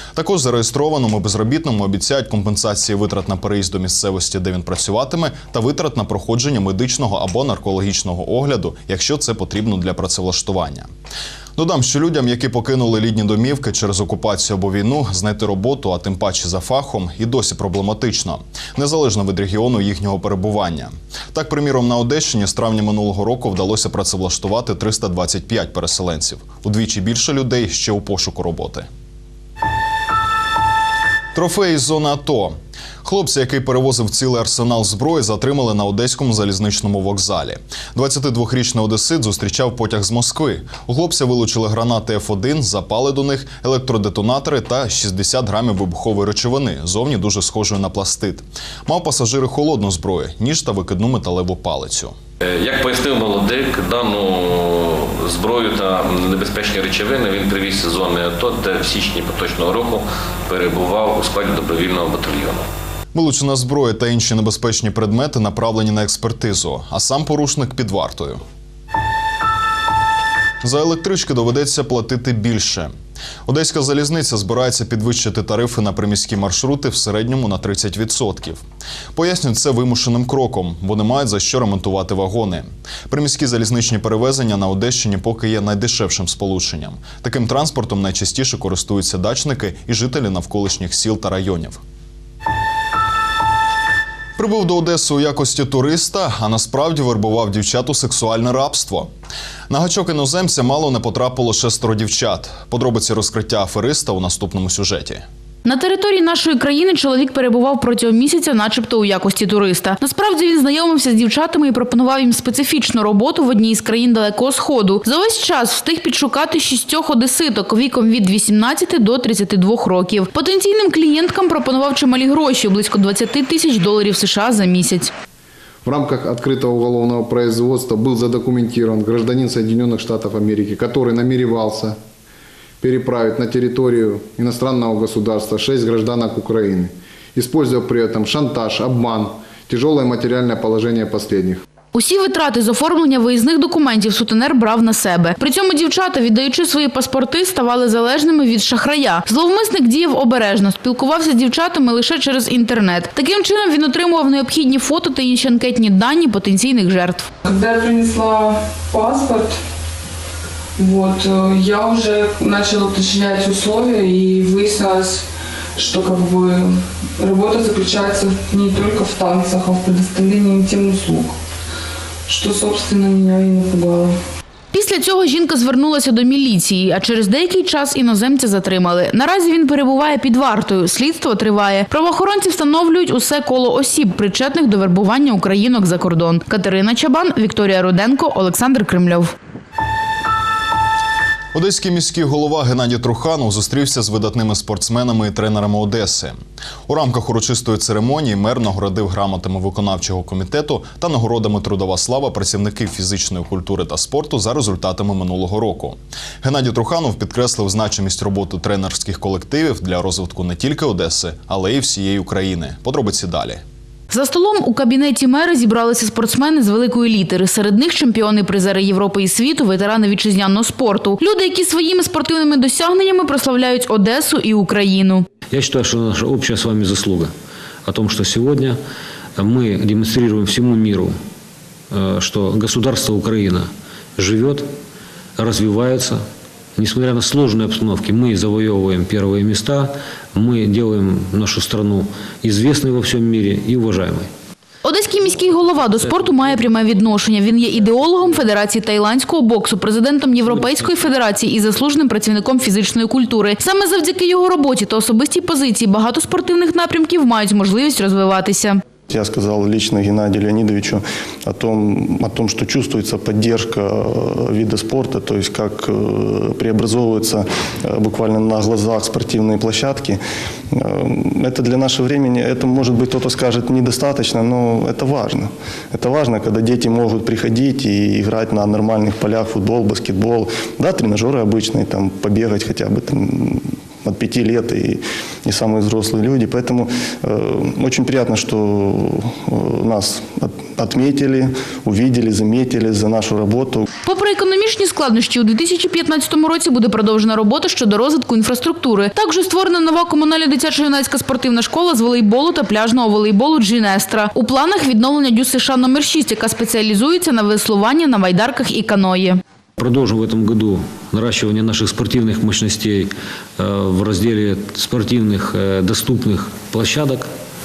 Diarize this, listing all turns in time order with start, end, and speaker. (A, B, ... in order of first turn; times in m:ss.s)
0:00.1-0:10.9 A
0:11.6-0:28.9 A
0:31.3-0:52.1 A
0:52.5-1:02.7 B
1:03.1-1:08.4 A
1:10.6-1:12.9 A
1:13.4-1:18.6 A
1:19.1-1:31.8 A
1:34.4-1:39.1 A
1:39.7-1:45.2 A
1:45.6-2:05.1 C
2:05.8-2:12.0 D
2:12.8-2:21.6 D
2:21.9-2:37.3 C
2:37.4-2:39.6 E
2:40.8-2:45.2 E
2:45.8-2:51.4 E
2:52.3-2:54.2 E
2:54.7-3:09.3 C
3:11.5-3:16.4 A
3:16.9-3:33.6 A
3:34.1-3:45.2 C
3:45.5-3:47.3 F
3:47.8-3:48.8 F
3:49.4-3:51.1 F
3:51.9-3:54.7 F
3:55.4-3:56.2 F
3:56.8-4:04.3 F
4:04.8-4:18.8 C
4:19.1-4:30.2 G
4:30.7-4:53.8 G
4:54.0-5:09.4 C
5:09.8-5:17.3 F